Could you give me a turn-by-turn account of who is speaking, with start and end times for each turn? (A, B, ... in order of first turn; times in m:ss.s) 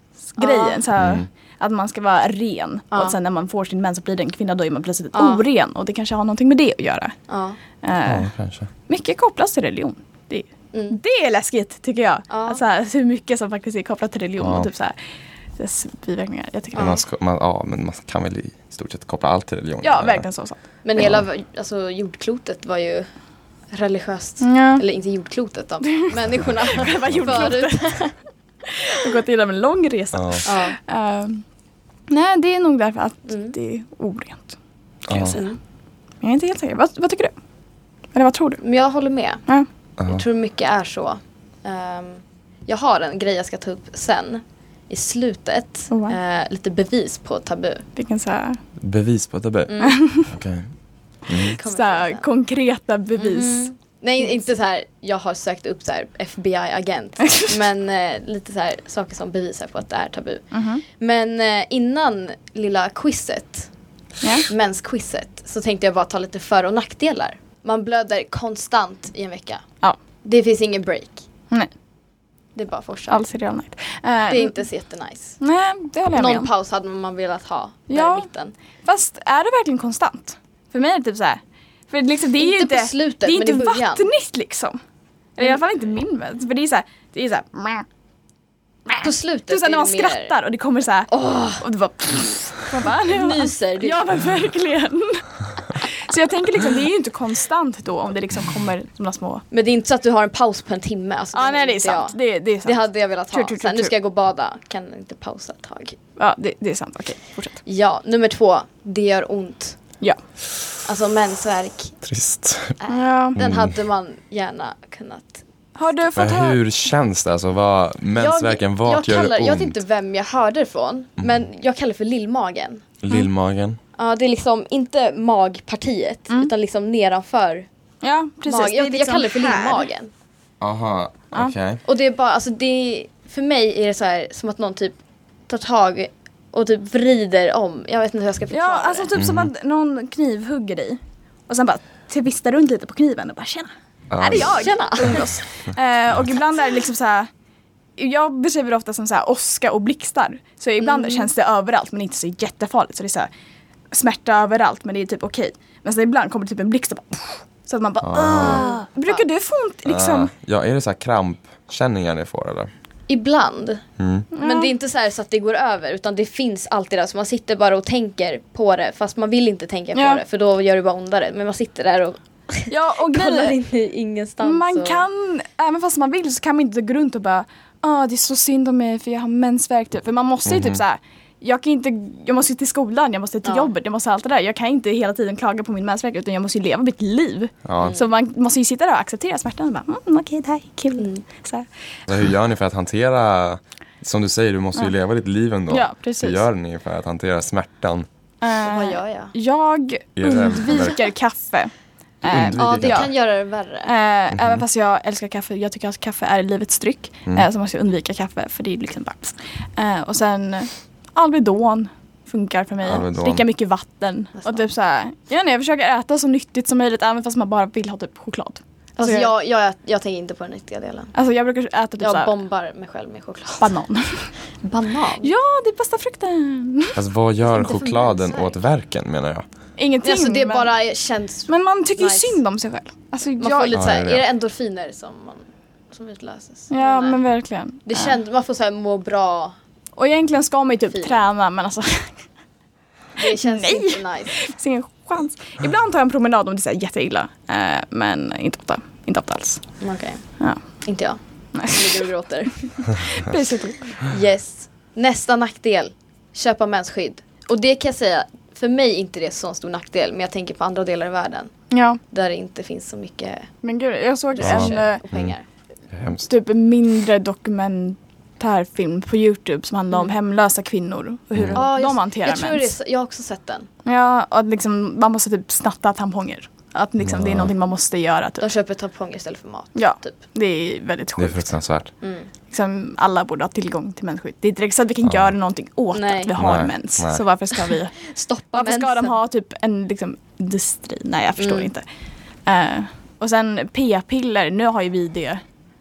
0:00.3-0:07.2 A
0:00.4-0:00.8 B
0:01.0-0:01.3 C
0:05.1-0:05.4 B
0:07.3-0:07.6 B
0:07.8-0:08.3 A
0:08.0-0:08.7 C
0:08.9-0:15.0 A
0:10.7-0:11.0 B
0:12.3-0:12.6 B
0:14.4-0:14.7 C
0:15.6-0:17.0 A
0:16.7-0:17.0 B
0:16.8-0:20.2 C
0:19.8-0:20.6 A
0:20.8-0:23.1 B
0:23.7-0:28.1 B
0:24.4-0:24.8 A
0:25.8-0:27.9 A
0:28.6-0:31.4 A
0:30.1-0:30.4 C
0:30.4-0:30.8 B
0:32.1-0:34.6 A
0:33.3-0:33.5 B
0:35.1-0:35.4 C
0:35.1-0:35.5 A
0:35.2-0:35.6 B
0:36.2-0:37.3 A
0:38.1-0:38.6 A
0:38.6-0:39.4 B
0:40.0-0:47.8 B
0:45.9-0:46.2 A
0:48.0-0:48.6 A
0:48.8-0:49.7 C
0:49.7-0:50.0 B
0:49.8-0:50.3 A
0:50.3-0:50.7 C
0:51.3-0:51.6 C
0:51.3-0:52.3 B
0:51.5-0:53.7 A
0:53.2-1:03.7 B
1:00.5-1:00.8 A
1:04.2-1:04.5 A
1:04.4-1:09.6 B
1:10.2-1:11.2 B
1:12.5-1:13.2 B
1:13.1-1:14.6 A
1:14.3-1:15.4 B
1:15.4-1:16.5 A
1:16.1-1:18.5 B
1:17.9-1:18.3 A
1:18.8-1:24.8 A
1:22.4-1:24.1 B
1:25.4-1:27.8 A
1:28.9-1:39.4 A
1:29.0-1:30.3 B
1:31.1-1:31.6 B
1:32.9-1:34.0 B
1:39.5-1:46.0 B
1:41.3-1:43.9 A
1:46.2-1:47.6 A
1:47.6-1:49.8 B
1:50.8-1:52.0 B
1:52.0-1:52.8 C
1:52.8-1:55.4 B
1:52.9-1:53.4 A
1:53.4-1:53.8 C
1:55.8-1:56.6 A
1:56.2-1:59.8 C
1:58.2-2:02.8 B
2:03.0-2:03.8 C
2:04.0-2:07.7 B
2:08.0-2:09.8 A
2:08.5-2:10.1 B
2:10.6-2:11.8 C
2:11.8-2:15.0 B
2:15.5-2:19.1 B
2:18.5-2:27.3 A
2:19.2-2:19.5 C
2:24.1-2:24.6 C
2:24.3-2:25.4 B
2:28.0-2:33.3 A
2:30.8-2:31.3 B
2:33.9-2:40.3 A
2:38.0-2:38.7 C
2:38.3-2:39.2 B
2:39.8-2:42.7 C
2:43.1-2:43.8 B
2:44.0-2:44.3 C
2:44.3-2:44.7 A
2:44.4-2:55.0 B
2:49.9-2:50.2 A
2:52.7-2:53.6 A
2:54.4-3:11.7 A
3:00.4-3:00.8 C
3:03.4-3:03.7 B
3:07.6-3:08.0 C
3:07.8-3:08.0 B
3:11.0-3:11.2 B
3:12.1-3:18.1 C
3:15.7-3:16.4 A
3:18.4-3:23.1 A
3:18.6-3:19.3 B
3:20.2-3:21.0 C
3:22.2-3:23.1 C
3:22.5-3:23.9 B
3:23.8-3:39.3 A
3:24.3-3:24.6 C
3:32.8-3:33.4 C
3:34.4-3:34.6 B
3:39.0-3:41.1 B
3:41.1-3:42.3 A
3:42.0-3:43.7 B
3:43.6-3:44.3 A
3:44.6-3:45.3 B
3:45.2-3:47.0 A
3:46.9-3:49.4 C
3:47.5-3:48.6 B
3:49.8-3:50.7 A
3:50.0-3:52.4 B
3:51.5-3:53.8 A
3:53.4-3:57.2 B
3:53.7-3:54.2 C
3:56.7-3:58.1 A
3:57.8-3:59.6 B
4:00.0-4:02.1 A
4:00.9-4:01.2 B
4:03.2-4:04.5 B
4:03.2-4:09.6 A
4:09.8-4:10.2 B
4:10.8-4:13.0 B
4:11.5-4:12.1 A
4:12.8-4:14.0 A
4:14.0-4:21.5 B
4:21.7-4:22.0 A
4:22.1-4:23.5 B
4:23.6-4:25.0 A
4:24.3-4:25.4 B
4:24.4-4:25.3 C
4:25.9-4:26.2 C
4:26.3-4:32.7 A
4:31.3-4:31.6 C
4:31.5-4:33.7 B
4:33.8-4:38.5 A
4:37.0-4:37.5 C
4:38.4-4:40.2 B
4:39.7-4:41.4 A
4:41.2-4:41.9 C
4:42.0-4:42.3 B
4:42.5-4:48.0 A
4:45.0-4:45.3 C
4:45.9-4:46.3 B
4:46.4-4:47.2 C
4:48.0-4:49.1 B
4:48.5-4:51.8 A
4:51.4-4:51.7 B
4:52.4-4:55.4 A